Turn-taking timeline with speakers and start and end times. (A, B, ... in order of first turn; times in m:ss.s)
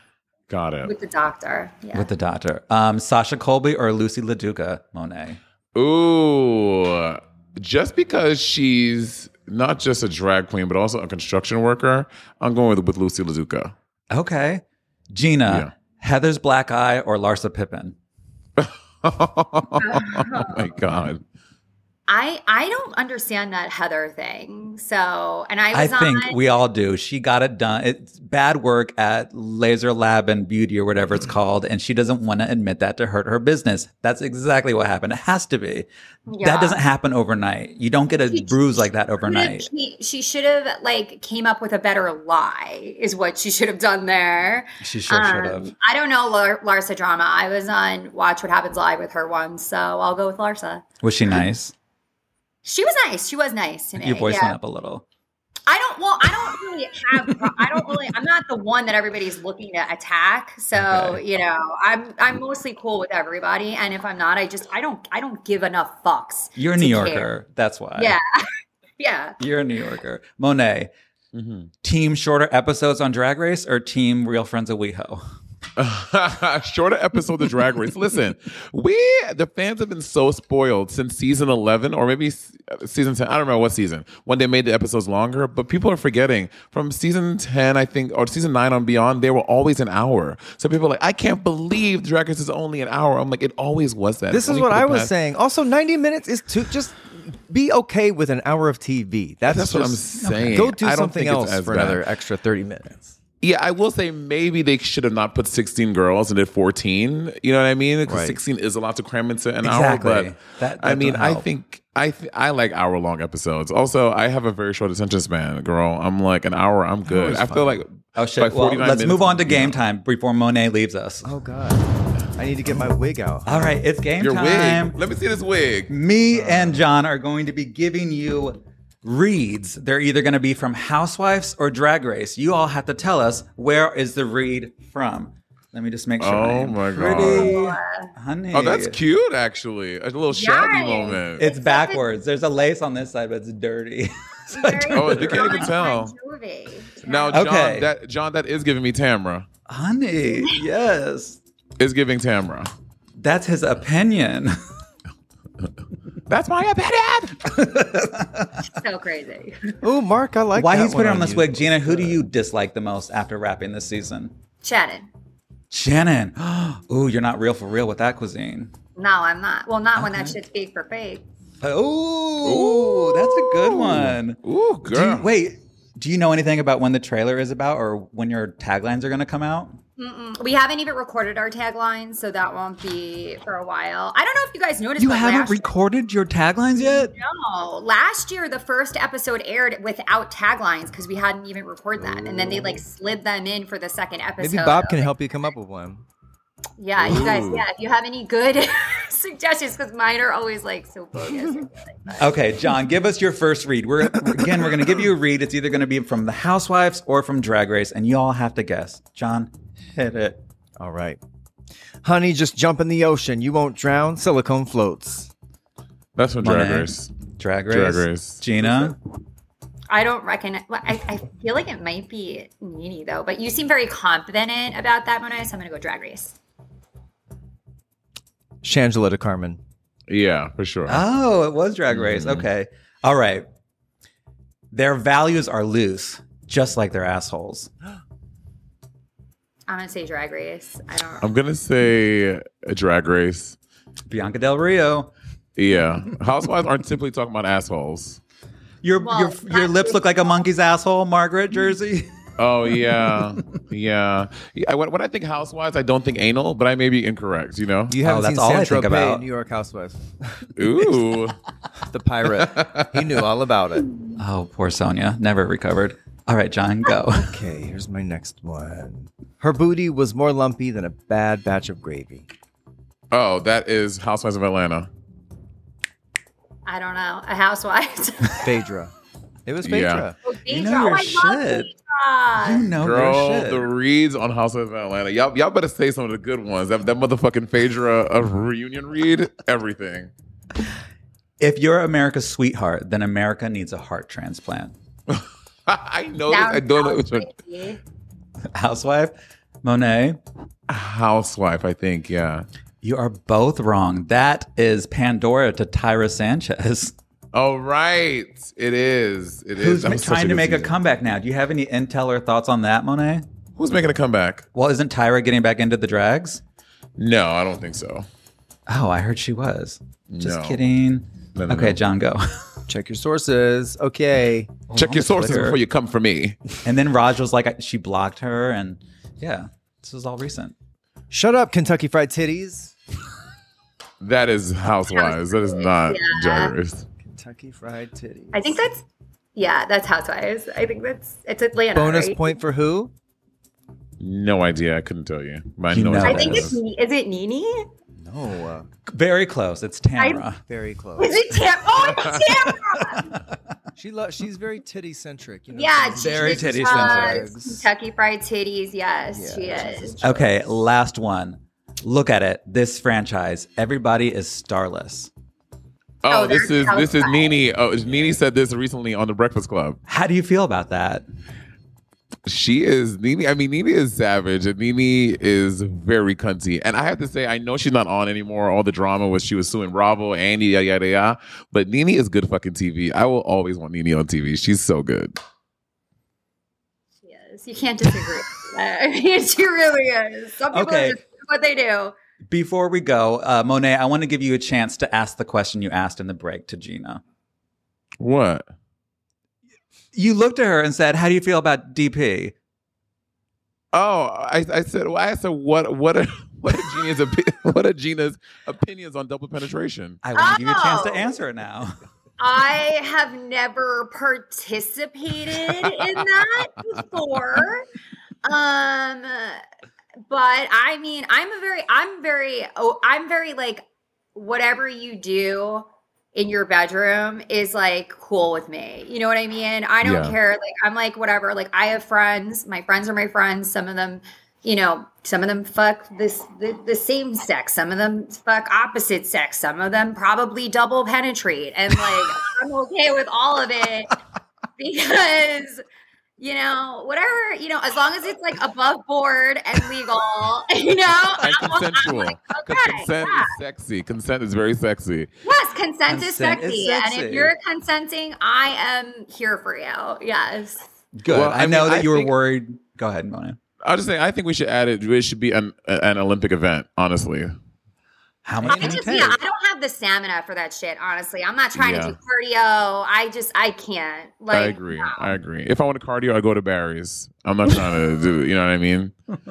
0:00.5-0:00.9 A
0:00.8-0:02.1 B
0:01.9-0:05.4 C
0:05.7-0:13.7 A
0:14.1-0:18.0 C
0:18.6-0:21.2 A
0:19.8-0:20.7 B
0:22.1-0:26.4 B
0:25.7-0:35.9 C
0:36.3-0:36.8 B
0:36.4-0:39.7 C
0:38.3-0:50.8 B
0:44.8-0:45.7 C
0:51.0-0:51.7 C
0:52.6-0:54.6 B
0:54.0-0:55.0 C
0:55.7-1:07.3 B
1:00.7-1:01.2 C
1:06.6-1:08.2 C
1:08.0-1:09.4 B
1:09.4-1:10.9 C
1:11.3-1:11.7 A
1:11.8-1:15.2 C
1:15.8-1:35.1 A
1:34.3-1:43.2 D
1:39.5-1:42.0 A
1:40.2-1:40.7 C
1:43.4-1:59.8 A
1:48.1-1:48.4 D
1:49.6-1:51.5 C
1:57.0-1:57.8 D
1:58.1-2:01.3 C
2:01.2-2:03.7 D
2:03.4-2:05.0 C
2:04.2-2:05.9 A
2:05.9-2:19.0 C
2:06.3-2:06.8 D
2:16.2-2:17.6 A
2:17.2-2:18.1 B
2:18.5-2:21.4 A
2:20.3-2:22.0 B
2:21.4-2:25.7 C
2:24.5-2:27.4 B
2:24.9-2:26.1 A
2:27.0-2:29.5 A
2:27.3-2:27.9 C
2:29.7-2:31.4 C
2:31.8-2:32.7 A
2:33.2-2:34.6 C
2:36.3-2:37.4 A
2:37.4-2:38.6 C
2:38.7-2:39.8 B
2:39.8-2:42.2 D
2:40.5-2:44.3 C
2:44.6-2:45.1 B
2:45.7-2:48.7 C
2:49.0-2:51.2 B
2:50.0-2:50.3 C
2:51.6-2:59.8 C
2:52.4-2:55.2 A
3:00.0-3:05.7 B
3:05.0-3:07.1 C
3:06.8-3:15.1 B
3:14.4-3:16.0 D
3:16.8-3:22.2 B
3:17.0-3:17.6 A
3:22.2-3:30.4 C
3:30.8-3:31.2 D
3:32.0-3:35.3 D
3:36.2-3:37.1 A
3:36.4-3:39.0 C
3:37.7-3:38.8 A
3:39.9-3:46.3 B
3:48.6-3:49.6 D
3:50.1-3:51.0 A
3:50.9-3:53.4 C
3:52.0-3:52.4 A
3:54.7-3:57.7 C
3:59.7-4:01.3 B
4:01.2-4:03.6 A
4:04.1-4:05.1 C
4:05.6-4:08.2 A
4:08.8-4:12.1 C
4:09.0-4:10.4 B
4:12.4-4:18.0 A
4:17.9-4:20.7 D
4:18.0-4:19.2 C
4:20.6-4:21.4 A
4:21.9-4:23.9 D
4:22.4-4:23.1 A
4:24.2-4:27.3 C
4:27.1-4:32.3 D
4:33.1-4:34.9 A
4:36.6-4:38.5 B
4:38.4-4:38.9 D
4:39.4-4:40.1 D
4:39.6-4:40.1 A
4:40.2-4:42.7 B
4:40.5-4:41.7 C
4:42.4-4:43.7 C
4:42.8-4:50.1 A
4:51.4-4:54.7 C
4:55.1-4:57.3 A
4:56.3-4:57.8 B
4:58.5-5:00.2 C
5:00.7-5:02.4 A
5:02.8-5:06.9 C
5:07.3-5:10.8 A
5:09.6-5:13.2 C
5:13.6-5:14.5 A
5:14.5-5:16.4 C
5:17.0-5:18.0 A
5:18.7-5:22.3 C
5:20.1-5:20.6 A
5:21.3-5:21.8 A
5:22.7-5:24.5 D
5:24.7-5:25.6 C
5:24.7-5:26.4 A
5:26.6-5:30.5 C
5:31.1-5:32.7 D
5:34.0-5:36.8 A
5:34.9-5:36.5 B
5:37.0-5:38.6 D
5:38.3-5:38.8 B
5:39.4-5:42.2 B
5:41.7-5:42.9 D
5:44.0-5:46.6 A
5:45.7-5:46.5 C
5:46.0-5:47.7 B
5:48.0-5:48.7 D
5:48.9-5:50.4 C
5:50.0-5:50.2 B
5:50.5-5:51.2 D
5:51.0-5:53.1 B
5:51.9-5:52.2 A
5:53.8-5:57.7 D
5:55.5-6:00.0 B
5:56.0-5:57.2 C
5:59.1-6:00.4 D
6:00.0-6:05.1 C
6:06.0-6:09.8 A
6:06.1-6:07.4 B
6:09.9-6:11.0 C
6:12.2-6:25.2 A
6:27.0-6:31.9 B
6:30.5-6:31.0 C
6:32.3-6:37.0 C
6:38.0-6:38.5 A
6:39.9-6:42.3 C
6:43.7-6:50.0 A
6:50.0-6:51.8 C
6:50.1-6:51.1 B
6:52.2-6:57.7 B
6:58.2-6:59.4 B
7:00.1-7:03.6 B
7:04.1-7:24.0 B
7:09.8-7:10.2 A
7:24.6-7:25.6 B
7:26.2-7:33.4 B
7:31.2-7:35.1 A
7:35.2-7:40.6 B
7:35.9-7:37.3 C
7:41.0-7:43.4 C
7:41.1-7:42.1 A
7:43.6-7:47.3 A
7:48.2-7:49.2 C
7:48.4-7:55.1 B
7:48.5-7:48.8 D
7:51.6-7:52.0 A
7:54.3-7:58.9 A